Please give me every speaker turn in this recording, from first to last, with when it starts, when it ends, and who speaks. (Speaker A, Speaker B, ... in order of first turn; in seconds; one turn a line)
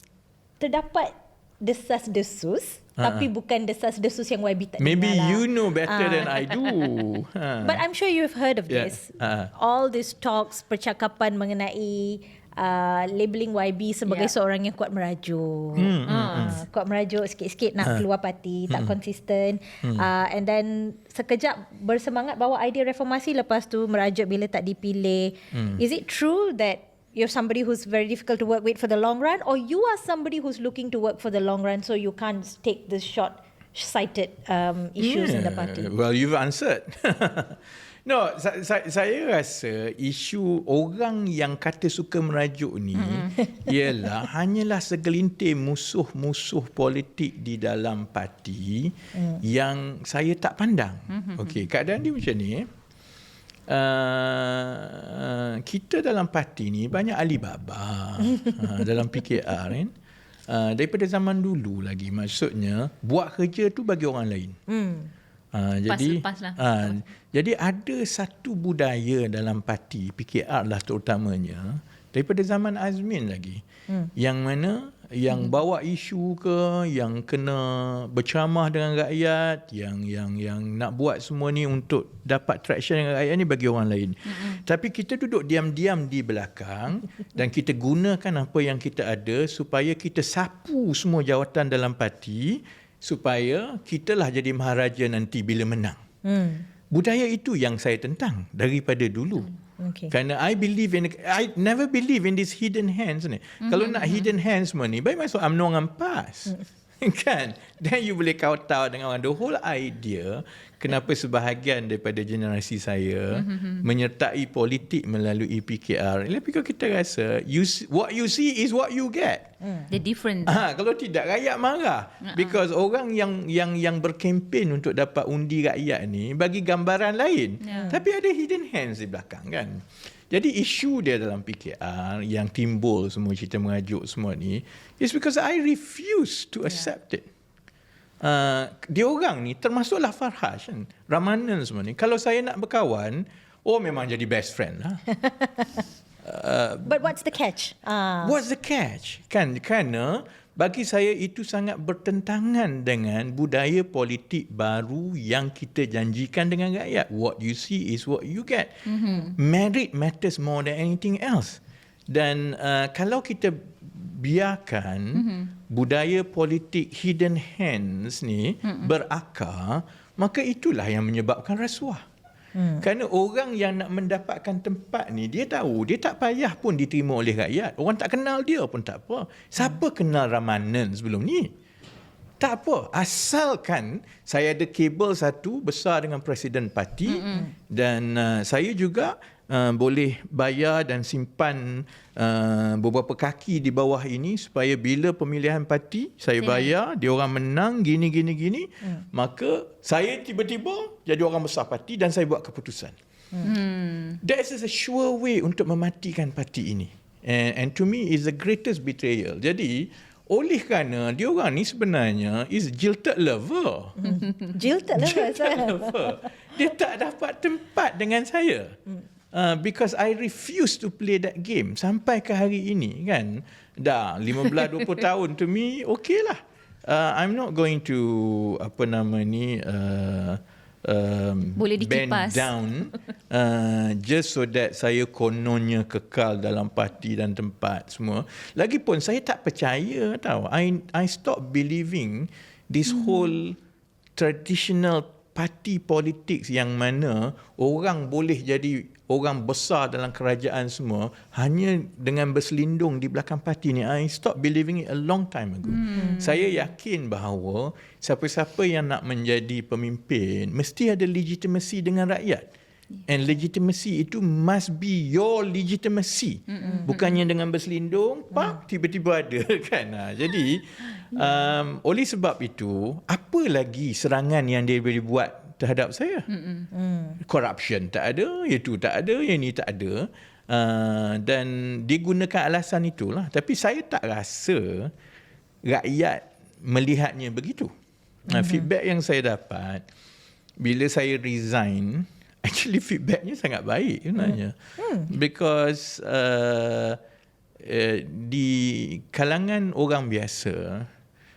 Speaker A: 0.6-6.4
Speaker B: 3.0-3.3
Speaker B: 4.8-7.8
Speaker A: 7.6-35.9
Speaker B: 8.7-9.5
Speaker B: 15.7-16.6
Speaker C: 16.1-16.6
Speaker B: 18.7-18.9
Speaker B: 19.8-20.1
Speaker B: 25.5-25.8
Speaker B: 35.0-52.7
Speaker C: 43.0-43.4
Speaker A: 49.1-49.4
Speaker C: 51.1-51.6
Speaker B: 53.7-59.9
Speaker B: 60.5-64.6
Speaker A: 64.7-65.1
Speaker B: 65.5-73.6
Speaker C: 65.9-67.0
Speaker B: 74.2-96.0
Speaker C: 75.3-75.5
Speaker C: 84.3-84.6
Speaker A: 96.2-96.6
Speaker B: 96.9-99.5
Speaker A: 99.8-100.1
Speaker B: 100.1-119.5
Speaker C: 103.6-104.3
Speaker C: 113.3-113.8
Speaker A: 119.6-119.9
Speaker C: 119.9-120.6
Speaker B: 120.5-137.2
Speaker C: 122.2-122.6
Speaker A: 127.7-128.0
Speaker B: 138.2-145.0
Speaker A: 145.1-145.7
Speaker B: 146.2-147.1
Speaker A: 146.9-148.4
Speaker B: 148.2-172.0
Speaker C: 158.9-159.4
Speaker C: 165.2-165.5
Speaker C: 168.6-168.9
Speaker A: 172.5-172.9
Speaker B: 172.8-181.5
Speaker B: 182.4-203.0
Speaker C: 187.1-187.4
Speaker C: 196.4-196.7
Speaker C: 203.4-204.2
Speaker B: 204.2-214.0
Speaker A: 214.0-216.2
Speaker B: 214.9-218.8
Speaker B: 219.3-243.6
Speaker C: 231.6-232.5
Speaker C: 242.9-243.2
Speaker B: 244.2-262.5
Speaker C: 255.7-256.6
Speaker B: 263.1-276.3
Speaker C: 266.5-267.2
Speaker C: 276.3-276.7
Speaker A: 276.7-277.2
Speaker B: 277.2-284.9
Speaker B: 285.6-287.7
Speaker B: 288.3-289.8
Speaker A: 288.3-288.6
Speaker B: 290.6-297.0
Speaker A: 294.8-295.1
Speaker B: 297.6-300.9